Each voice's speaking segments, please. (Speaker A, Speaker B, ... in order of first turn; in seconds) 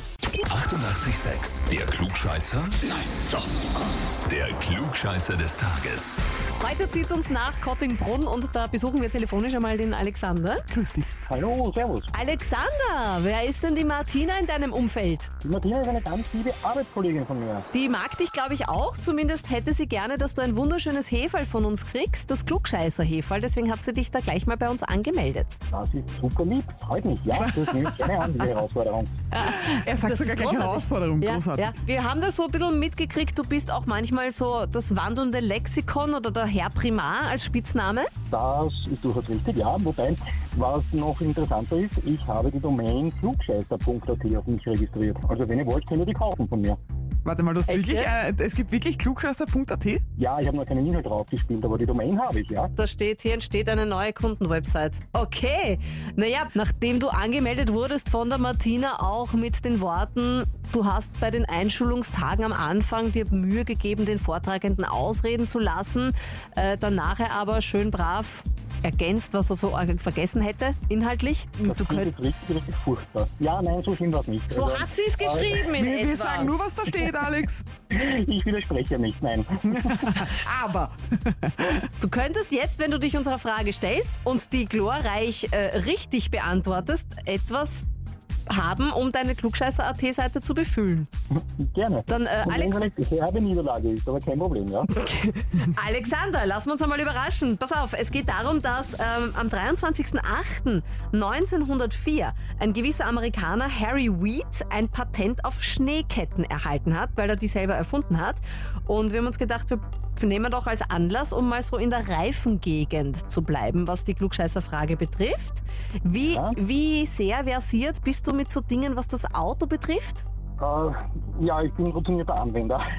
Speaker A: 0.5-2.8, 4.2-6.2
Speaker B: 6.6-10.6, 12.1-15.3, 17.7-25.6, 29.3-38.1, 47.7-48.1, 52.8-72.1, 74.5-76.6, 82.0-87.8, 88.5-91.1, 92.1-92.8, 94.9-120.2
Speaker C: 10.7-11.1, 27.4-28.5, 29.4-31.7, 47.2-50.0, 75.8-77.7, 79.7-81.8
Speaker D: 11.2-12.1, 15.4-17.6, 25.7-29.1, 38.3-46.8, 50.2-52.7, 71.6-75.7, 77.9-80.2, 91.3-94.9, 116.2-116.5, 120.6-122.8